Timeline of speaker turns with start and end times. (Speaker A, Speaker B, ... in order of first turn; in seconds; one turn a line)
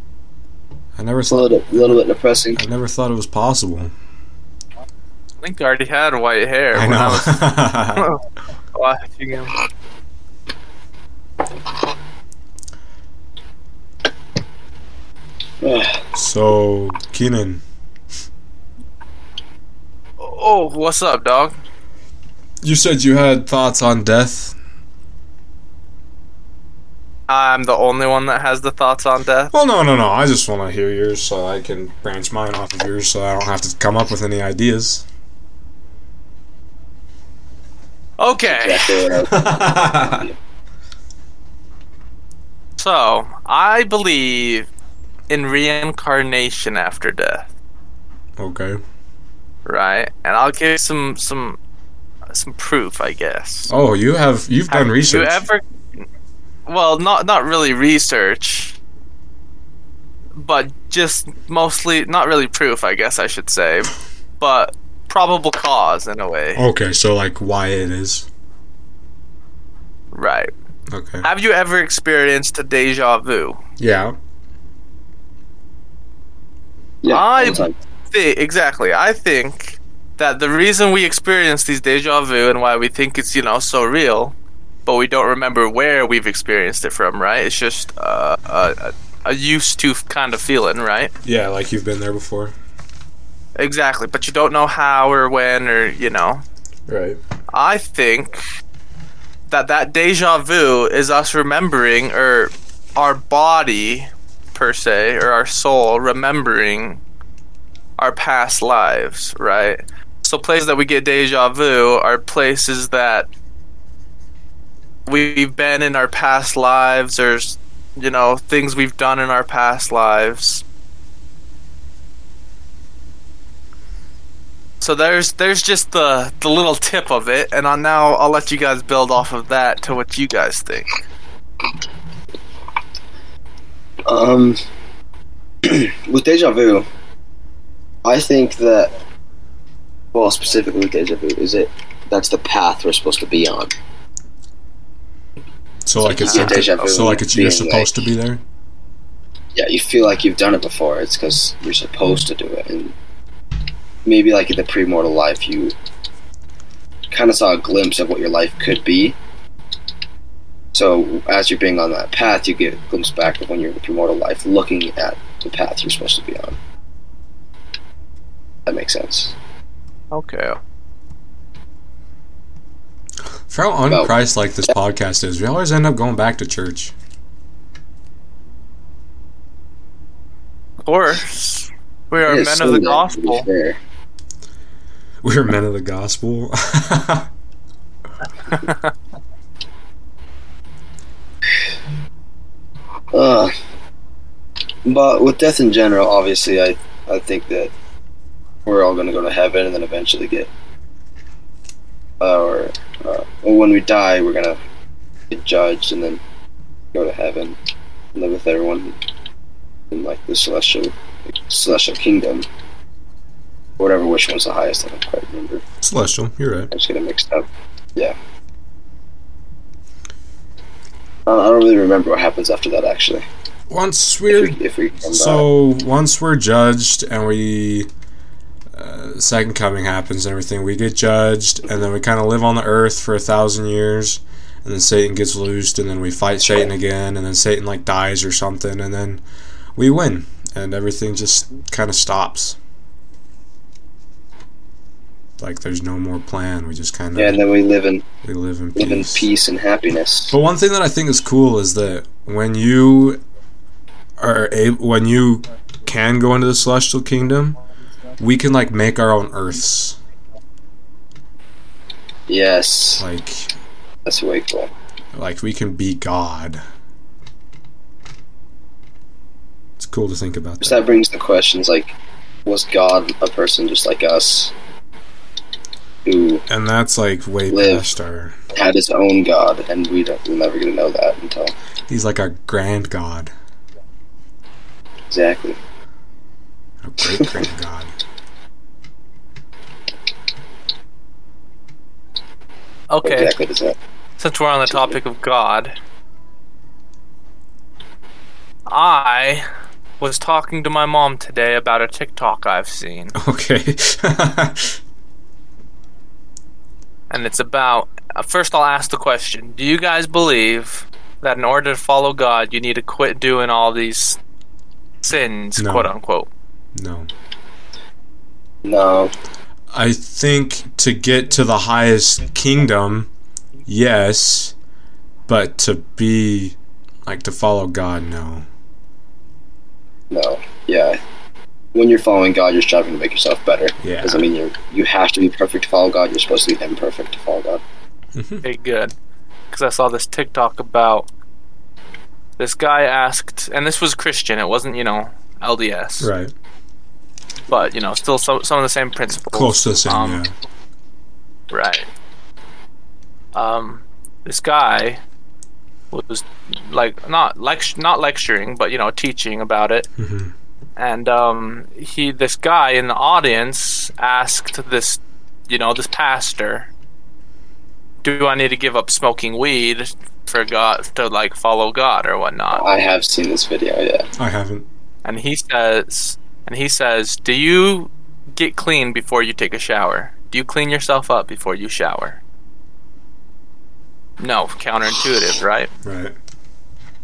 Speaker A: 1.0-2.0
Speaker B: 1.3-2.6
Speaker A: 2.5-3.9
Speaker C: 5.4-8.2
Speaker A: 6.7-8.1
Speaker C: 8.7-9.5
Speaker B: 15.6-16.1
Speaker A: 16.1-17.6
Speaker C: 20.2-21.6
Speaker A: 22.6-24.6
Speaker C: 27.3-29.5
Speaker A: 29.5-35.0
Speaker C: 38.2-39.1
Speaker B: 38.5-40.4
Speaker A: 39.3-40.2
Speaker C: 42.8-44.7
Speaker C: 45.3-47.5
Speaker A: 48.4-48.8
Speaker C: 49.7-51.6
Speaker C: 52.3-53.7
Speaker A: 53.7-55.4
Speaker C: 54.7-55.6
Speaker C: 56.7-58.8
Speaker C: 60.4-66.7
Speaker A: 66.6-68.3
Speaker C: 70.1-70.5
Speaker A: 70.9-71.3
Speaker C: 71.2-73.6
Speaker A: 73.8-74.2
Speaker B: 77.0-77.8
Speaker C: 77.1-84.3
Speaker C: 84.9-91.1
Speaker A: 91.2-92.5
Speaker C: 93.6-96.4
Speaker A: 96.9-97.2
Speaker C: 97.5-98.4
Speaker C: 99.5-107.0
Speaker C: 108.0-113.3
Speaker C: 115.1-120.6
Speaker C: 124.8-131.0
Speaker B: 134.1-134.6
Speaker B: 135.6-136.9
Speaker B: 138.0-138.9
Speaker B: 140.1-143.7
Speaker A: 145.9-148.4
Speaker B: 146.0-147.9
Speaker C: 146.2-146.6
Speaker B: 149.6-152.9
Speaker B: 154.1-155.7
Speaker B: 157.1-159.2
Speaker B: 160.7-166.6
Speaker B: 168.7-169.3
Speaker C: 170.1-170.6
Speaker A: 173.5-176.9
Speaker C: 180.8-183.5
Speaker B: 182.3-183.8
Speaker A: 185.2-187.3
Speaker C: 188.5-188.9
Speaker B: 193.1-193.5
Speaker B: 194.8-197.7
Speaker B: 198.7-200.5
Speaker B: 202.2-204.6
Speaker B: 205.3-206.2
Speaker B: 206.9-207.6
Speaker B: 208.1-208.9
Speaker B: 209.9-212.5
Speaker B: 213.8-215.6
Speaker A: 215.8-216.7
Speaker B: 216.7-218.2
Speaker B: 221.3-223.3
Speaker A: 223.7-227.9
Speaker B: 224.3-225.4
Speaker A: 228.7-239.2
Speaker A: 239.8-242.6
Speaker A: 245.4-247.4
Speaker B: 247.2-248.1
Speaker A: 248.2-249.3
Speaker B: 248.8-250.3
Speaker A: 250.3-253.2
Speaker A: 254.2-257.6
Speaker A: 258.2-260.0
Speaker B: 262.3-263.0
Speaker A: 263.0-263.5
Speaker B: 264.1-264.7
Speaker A: 265.1-266.6
Speaker A: 269.8-270.8
Speaker B: 270.6-271.9
Speaker B: 272.5-274.5
Speaker B: 276.1-276.4
Speaker A: 276.5-278.4
Speaker B: 277.5-277.9
Speaker B: 278.6-281.5
Speaker A: 281.9-283.3
Speaker B: 285.1-285.6
Speaker A: 286.8-287.9
Speaker C: 292.9-293.3
Speaker B: 293.0-293.8
Speaker C: 294.2-295.8
Speaker B: 294.7-295.0
Speaker C: 298.7-299.5
Speaker C: 300.0-303.1
Speaker A: 303.2-304.8
Speaker C: 307.1-314.2
Speaker C: 315.0-316.3
Speaker A: 315.6-315.9
Speaker A: 316.8-317.1
Speaker B: 318.6-319.1
Speaker A: 319.7-323.1
Speaker A: 323.7-324.6
Speaker A: 325.3-328.5
Speaker B: 330.1-331.0
Speaker B: 331.8-337.6
Speaker A: 333.8-334.3
Speaker A: 338.1-338.4
Speaker C: 338.4-338.9
Speaker C: 339.5-341.1
Speaker C: 342.4-346.1
Speaker A: 346.0-346.3
Speaker C: 347.5-350.2
Speaker A: 349.3-350.3
Speaker C: 351.5-351.9
Speaker C: 353.4-355.0
Speaker C: 355.9-359.9
Speaker A: 360.0-360.3
Speaker C: 360.8-366.7
Speaker C: 368.0-372.7
Speaker B: 372.5-374.1
Speaker A: 374.2-374.7
Speaker C: 375.1-382.2
Speaker C: 384.2-385.7
Speaker A: 385.8-386.2